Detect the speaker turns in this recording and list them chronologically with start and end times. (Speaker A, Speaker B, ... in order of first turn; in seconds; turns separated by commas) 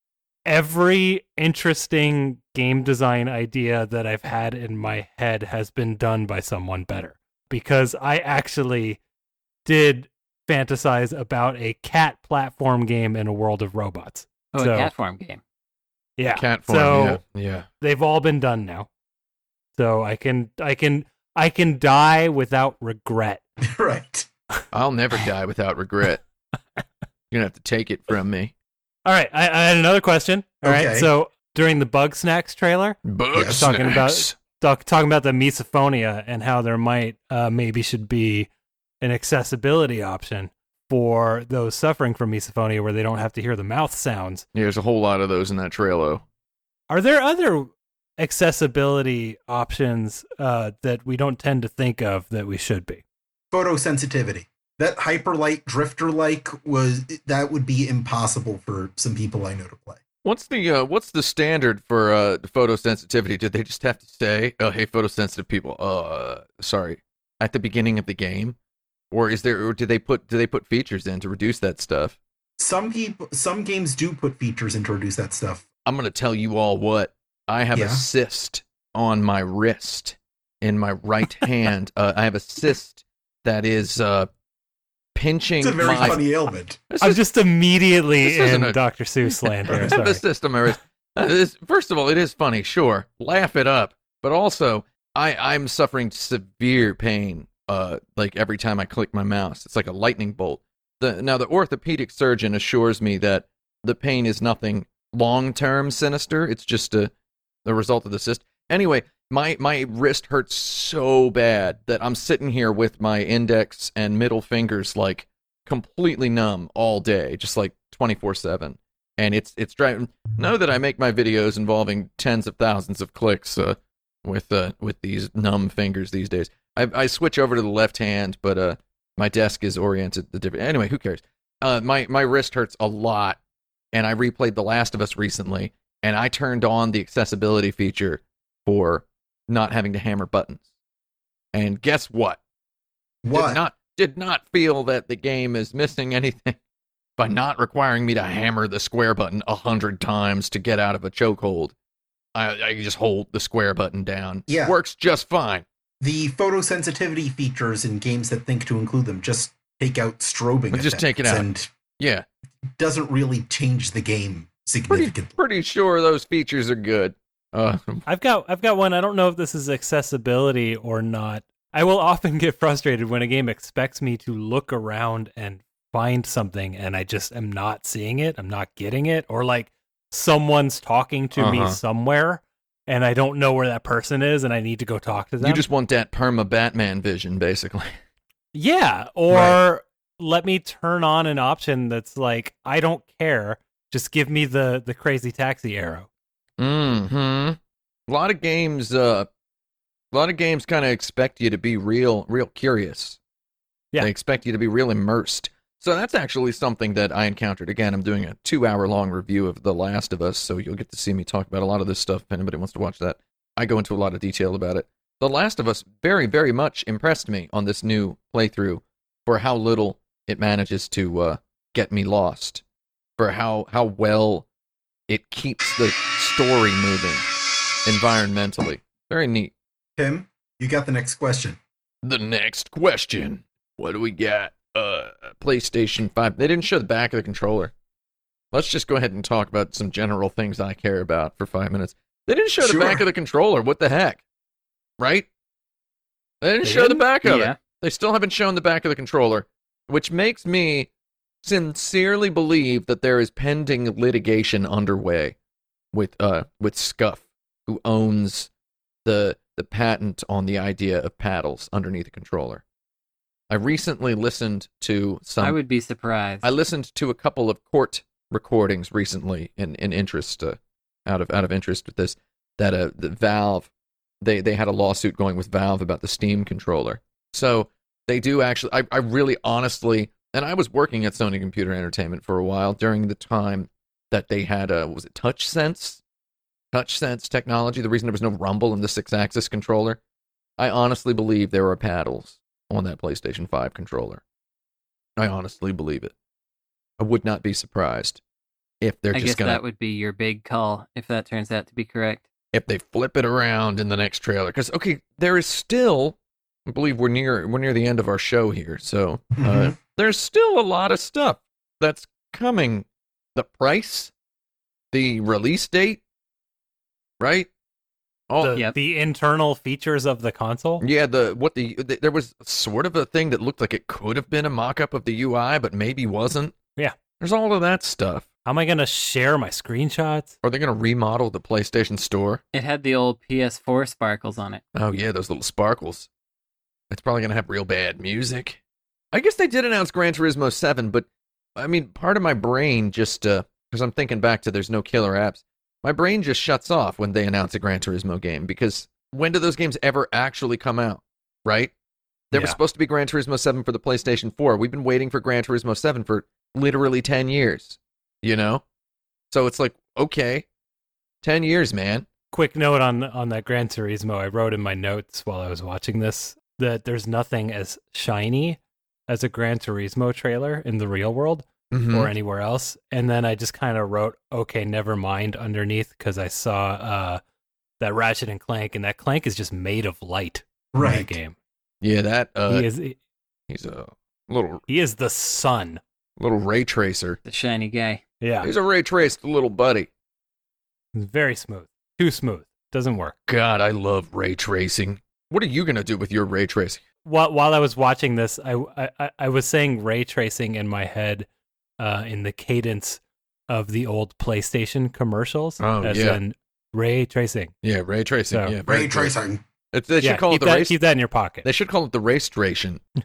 Speaker A: 0.5-9.0, Speaker A: 9.6-14.9, Speaker B: 14.5-15.4, Speaker A: 16.2-17.2, Speaker C: 16.3-17.7, Speaker A: 17.8-18.9, Speaker A: 19.8-23.4, Speaker D: 23.6-24.3, Speaker C: 24.7-26.2, Speaker C: 27.3-28.5, Speaker A: 29.0-38.5, Speaker D: 30.6-31.1, Speaker C: 33.0-34.3, Speaker D: 33.3-33.7, Speaker A: 39.0-44.5, Speaker C: 44.5-46.2, Speaker A: 46.9-53.0, Speaker D: 53.5-60.0, Speaker C: 60.2-68.5, Speaker C: 69.1-72.2, Speaker D: 72.6-75.6, Speaker C: 75.8-84.3, Speaker D: 77.7-78.0, Speaker C: 85.1-86.2, Speaker D: 85.6-86.8, Speaker C: 86.9-87.2, Speaker A: 87.0-90.2, Speaker C: 88.2-107.1, Speaker D: 89.7-90.0, Speaker C: 107.6-133.4, Speaker C: 133.9-140.6, Speaker C: 141.5-142.4, Speaker D: 143.2-143.6, Speaker C: 143.3-146.6, Speaker C: 147.2-151.7, Speaker C: 152.3-155.6, Speaker D: 154.5-154.8, Speaker D: 156.0-161.7, Speaker C: 160.7-161.5, Speaker C: 162.0-162.2, Speaker D: 162.8-165.3, Speaker C: 164.9-168.1, Speaker A: 168.1-185.6, Speaker C: 181.3-181.8, Speaker C: 185.4-187.9, Speaker A: 188.5-196.1, Speaker C: 189.3-189.6, Speaker C: 196.6-199.3, Speaker C: 200.1-203.2, Speaker C: 204.0-222.6, Speaker C: 223.2-224.4, Speaker C: 225.1-227.2, Speaker C: 227.8-229.5, Speaker D: 230.0-231.6, Speaker C: 232.0-237.7, Speaker C: 238.5-244.2, Speaker D: 242.6-243.0, Speaker C: 245.0-245.3, Speaker C: 246.4-250.9, Speaker A: 246.6-247.0, Speaker B: 247.2-247.6, Speaker C: 251.4-255.3, Speaker C: 255.9-258.5, Speaker C: 259.0-262.6, Speaker C: 263.5-265.6, Speaker B: 265.4-266.5, Speaker C: 266.4-273.7, Speaker C: 274.2-286.0, Speaker C: 286.7-290.0, Speaker C: 290.6-294.2, Speaker C: 295.2-296.1, Speaker C: 297.0-298.2, Speaker C: 298.8-299.6, Speaker B: 299.1-302.2, Speaker C: 302.5-314.1, Speaker D: 309.4-309.8, Speaker C: 314.9-316.0, Speaker C: 317.2-317.5, Speaker C: 318.3-318.6, Speaker A: 318.4-320.8, Speaker C: 320.8-326.6, Speaker C: 327.2-328.2, Speaker A: 328.4-330.3, Speaker C: 330.4-332.4, Speaker B: 332.5-334.6, Speaker C: 334.7-336.1, Speaker C: 336.9-338.6, Speaker C: 339.1-351.7, Speaker C: 352.3-358.6, Speaker C: 359.3-360.4, Speaker C: 361.2-362.1, Speaker A: 362.3-377.2, Speaker C: 371.7-372.1, Speaker A: 377.8-381.3, Speaker D: 380.7-381.2, Speaker C: 381.8-382.7, Speaker A: 382.5-383.0, Speaker C: 383.5-384.6, Speaker A: 384.7-385.8, Speaker C: 386.2-387.2, Speaker B: 387.2-388.0, Speaker A: 388.2-388.5, Speaker C: 388.4-389.9, Speaker A: 390.9-393.1, Speaker C: 393.3-396.8, Speaker A: 397.0-401.3, Speaker A: 401.8-407.5, Speaker C: 405.6-406.2, Speaker C: 407.6-409.1, Speaker D: 408.6-409.4, Speaker C: 409.7-410.8, Speaker A: 410.0-411.4, Speaker C: 411.4-412.8